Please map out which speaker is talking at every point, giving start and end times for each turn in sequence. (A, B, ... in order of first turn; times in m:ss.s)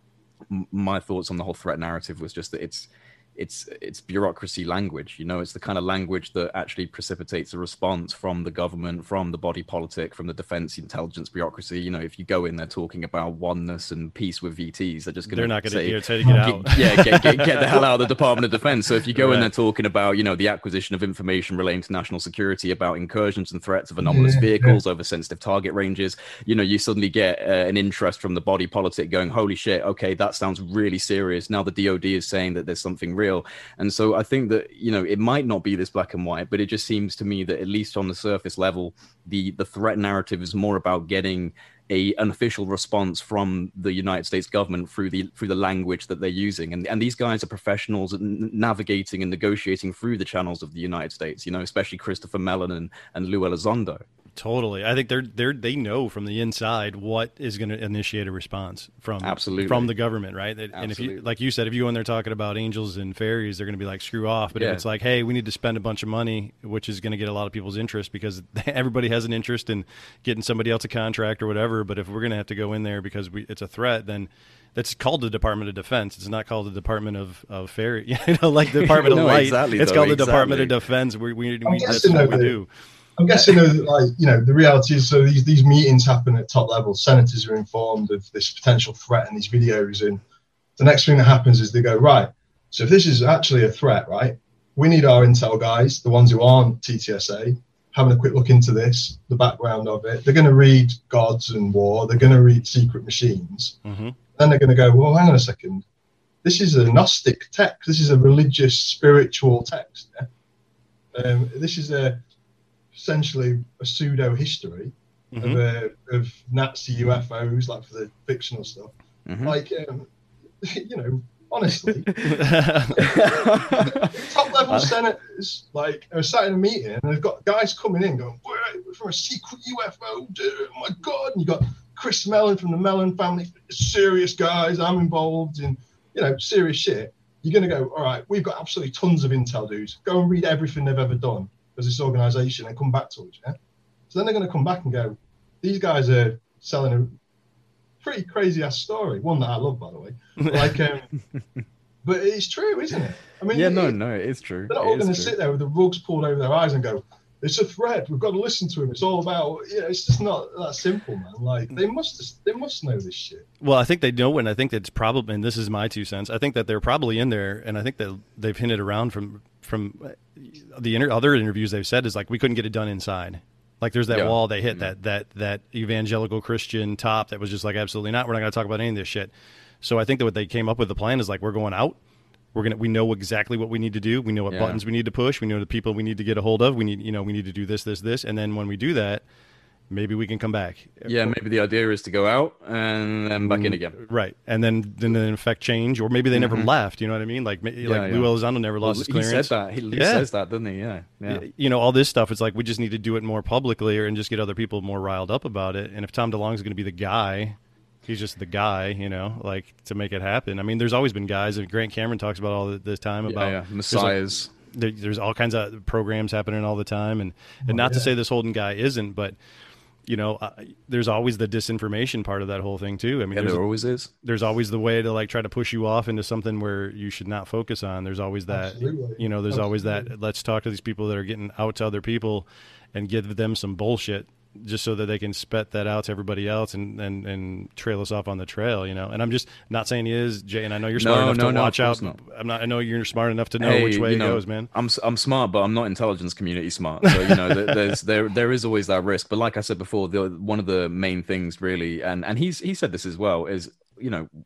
0:00.5-0:54.0 A
0:15.3-0:17.8 B
0:16.2-0:16.5 C
0:19.1-0:19.5 B
0:24.0-0:24.8 C
0:54.4-1:22.7 B
0:59.2-0:59.9 A
1:00.7-1:01.2 A
1:04.5-1:04.8 A
1:18.8-1:20.8 A
1:21.6-1:22.6 C
1:21.9-1:22.3 A
1:23.2-1:30.2 C
1:30.8-1:43.8 C
1:43.8-1:44.2 B
1:44.3-1:45.8 C
1:46.4-1:50.3 C
1:51.1-1:52.2 C
1:52.9-2:00.1 C
1:55.3-1:55.6 B
1:59.2-1:59.6 A
2:00.6-2:02.2 C
2:02.1-2:02.4 A
2:02.2-2:03.0 B
2:02.9-2:04.3 A
2:03.0-2:23.6 C
2:24.1-2:27.2 C
2:28.0-2:31.1 C
2:32.0-2:34.0 C
2:33.5-2:35.3 A
2:34.7-2:43.4 C
2:43.6-3:02.0 B
2:54.1-2:54.9 A
3:02.5-3:09.2 B
3:04.5-3:04.8 A
3:09.9-3:11.4 B
3:11.1-3:14.0 A
3:13.4-3:20.3 B
3:16.3-3:16.7 A
3:17.8-3:21.4 A
3:21.3-3:34.2 B
3:33.3-3:34.5 A
3:34.7-3:39.4 B
3:37.6-3:38.1 C
3:40.0-3:43.6 B
3:43.3-3:44.1 A
3:44.2-4:04.7 B
3:48.5-3:50.1 C
4:01.0-4:02.2 A
4:03.6-4:14.3 A
4:07.0-4:07.7 B